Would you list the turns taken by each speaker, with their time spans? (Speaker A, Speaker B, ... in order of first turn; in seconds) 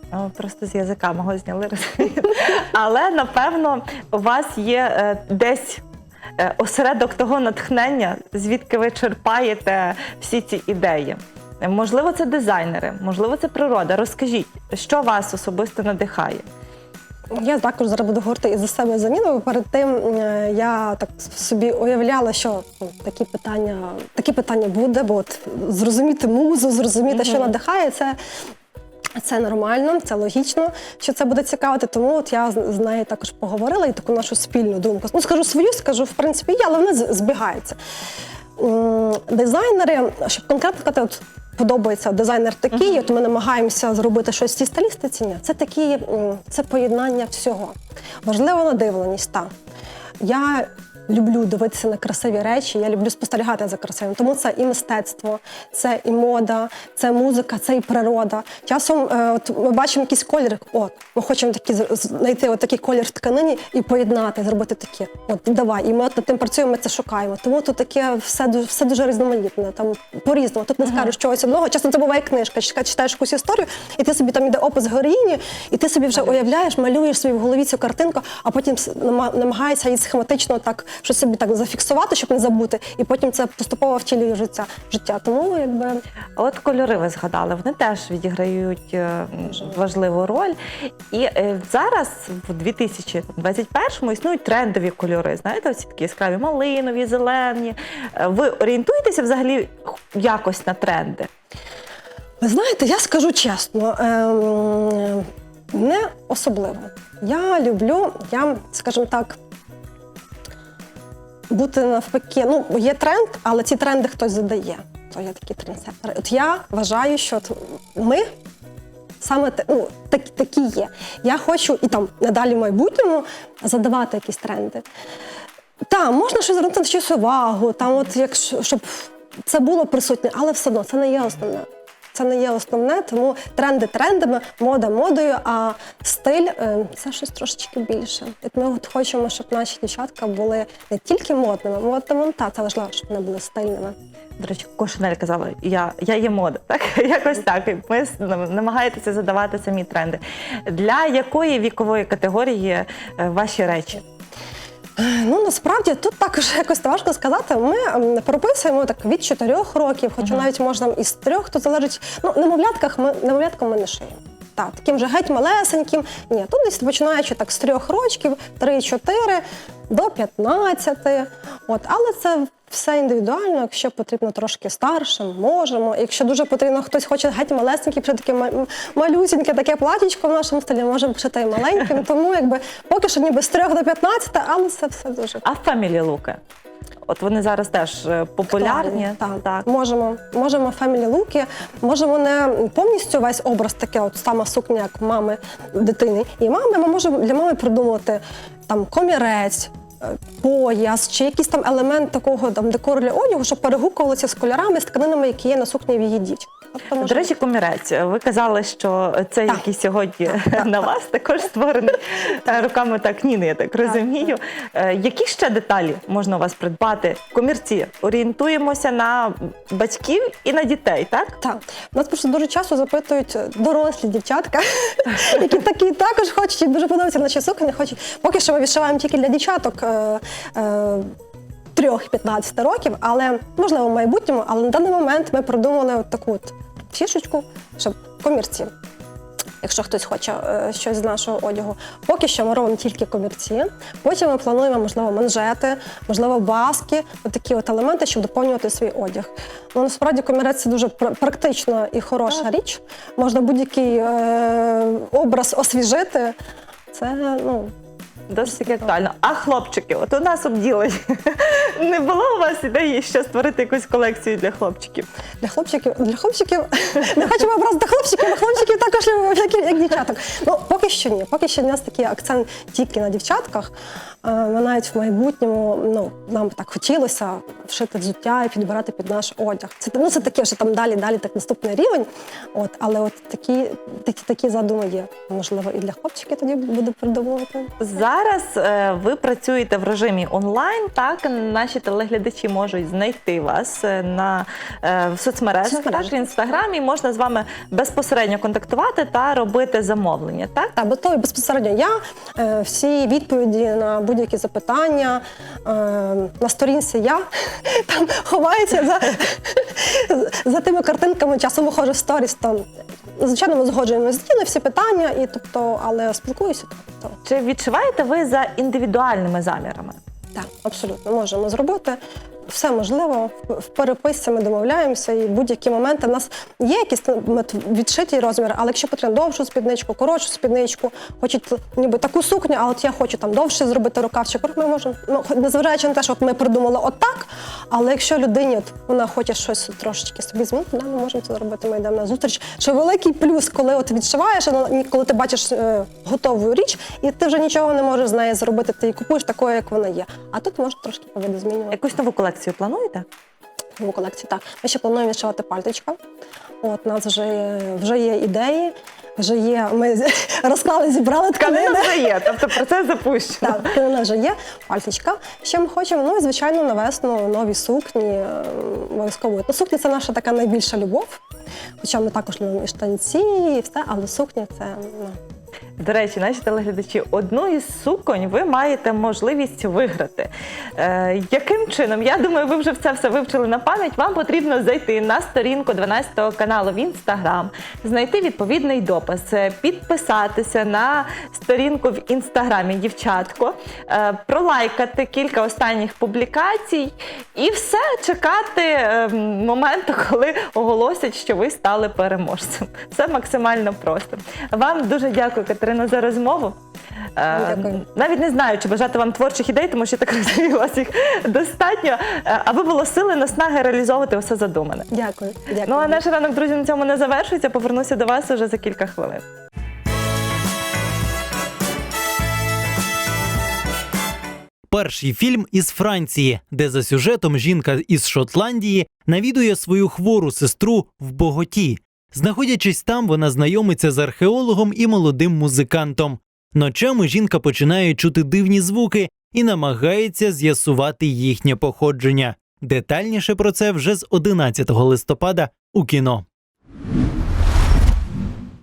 Speaker A: 0.1-5.8, 6.4-16.5, 86.4-90.6, 91.1-101.3, 144.4-154.0, 185.4-186.4, 187.1-189.7, 207.0-221.4, 258.3-265.1, 287.8-300.7, 317.2-320.0, 351.7-353.0, 361.4-363.7, 375.8-406.6, 407.1-414.9, 415.6-419.2
Speaker B: 17.3-28.2, 29.1-37.8, 38.6-49.5, 50.2-86.0, 102.4-109.4, 111.5-118.3, 119.2-124.8, 125.8-144.0, 155.0-185.4, 188.5-207.3, 210.3-210.9, 221.4-231.1, 231.7-238.7, 239.6-256.4, 256.9-257.7, 265.4-287.8, 295.6-296.1, 300.7-317.2, 320.3-351.8, 353.8-356.0, 356.6-362.2, 363.4-371.2, 371.8-375.2, 407.3-407.8, 414.9-416.0
Speaker C: 424.7-446.2